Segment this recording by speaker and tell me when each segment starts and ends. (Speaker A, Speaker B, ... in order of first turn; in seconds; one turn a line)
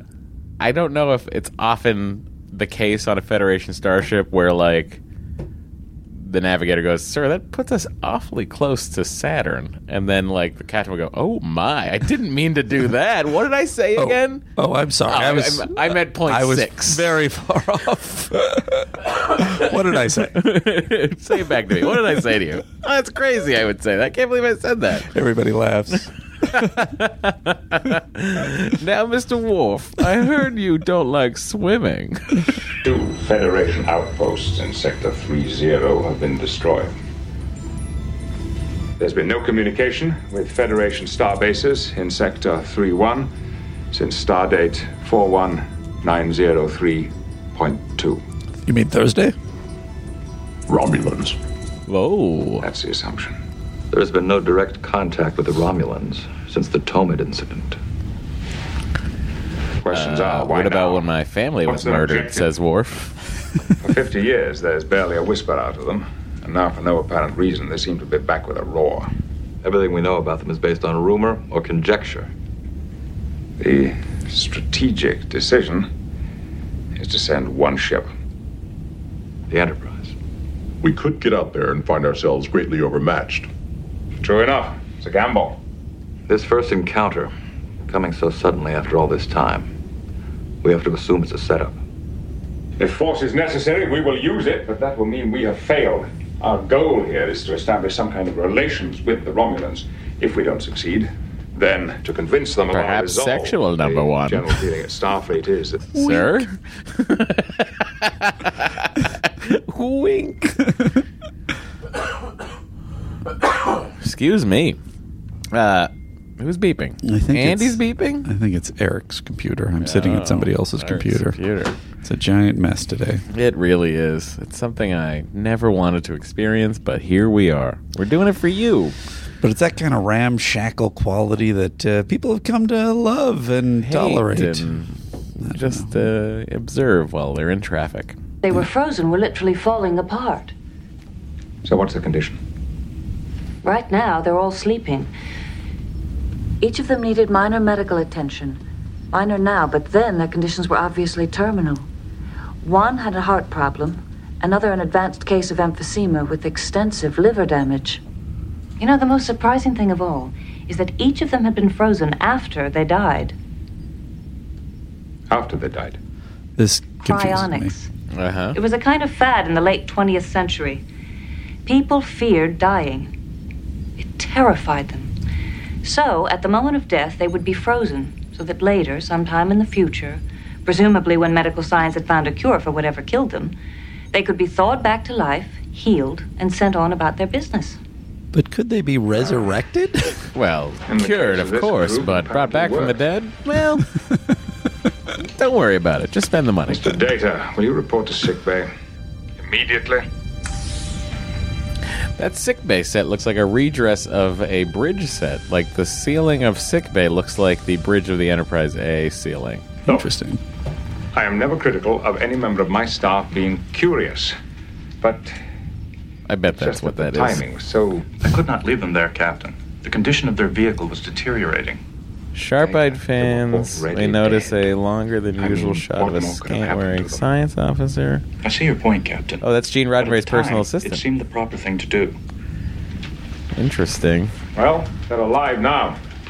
Speaker A: 0.6-5.0
Speaker A: 6.1-14.5
Speaker B: 14.0-20.4
Speaker A: 15.1-17.1
Speaker A: 19.3-25.1
Speaker B: 25.1-26.6
Speaker A: 26.5-32.4
Speaker C: 32.8-36.9
Speaker C: 39.0-43.3
Speaker C: 43.9-48.2
Speaker B: 48.7-49.4
Speaker D: 50.7-51.4
Speaker A: 51.9-52.7
Speaker C: 52.6-53.4
Speaker E: 53.9-57.8
Speaker C: 59.8-61.1
Speaker A: 59.9-63.2
Speaker C: 61.6-62.5
Speaker C: 63.8-69.1
Speaker E: 69.6-72.3
Speaker C: 73.6-75.9
Speaker C: 77.0-78.1
Speaker E: 79.5-80.1
Speaker D: 80.8-83.5
Speaker C: 84.2-85.6
Speaker E: 86.3-87.3
Speaker E: 87.9-89.7
Speaker E: 90.6-91.8
Speaker C: 92.8-106.0
Speaker A: 102.7-104.6
Speaker A: 105.9-110.7
Speaker A: 113.6-114.8
Speaker A: 115.5-118.3
Speaker B: 117.0-121.4
Speaker A: 119.8-121.8
Speaker B: 122.0-123.2
Speaker A: 123.3-129.0
Speaker B: 129.4-134.8
Speaker A: 133.8-134.9
Speaker B: 135.4-136.1
Speaker A: 135.5-138.2
Speaker F: 138.4-140.5
Speaker C: 141.6-142.4
Speaker F: 143.6-145.1
Speaker F: 146.6-148.6
Speaker F: 149.1-151.9
Speaker F: 152.6-158.0
Speaker F: 158.8-163.3
Speaker C: 165.3-166.0
Speaker B: 166.6-167.7
Speaker F: 167.0-167.9
Speaker A: 168.1-168.6
Speaker F: 168.5-170.8
Speaker F: 171.7-173.1
Speaker F: 174.0-175.1
Speaker F: 175.8-183.5
Speaker F: 184.1-187.8
Speaker B: 188.3-190.2
Speaker A: 190.3-193.9
Speaker C: 190.9-193.0
Speaker A: 195.3-196.9
Speaker C: 196.7-198.7
Speaker C: 199.4-200.0
Speaker A: 202.2-209.7
Speaker B: 209.9-210.4
Speaker C: 211.1-214.4
Speaker C: 215.0-215.3
Speaker A: 216.3-217.4
Speaker C: 216.5-218.2
Speaker G: 218.2-221.8
Speaker A: 222.3-228.2
Speaker C: 223.3-223.7
Speaker G: 223.4-224.6
Speaker G: 225.4-226.6
Speaker C: 226.0-227.2
Speaker G: 228.4-229.4
Speaker A: 229.4-231.0
Speaker G: 230.0-232.2
Speaker A: 233.6-234.3
Speaker C: 234.6-236.0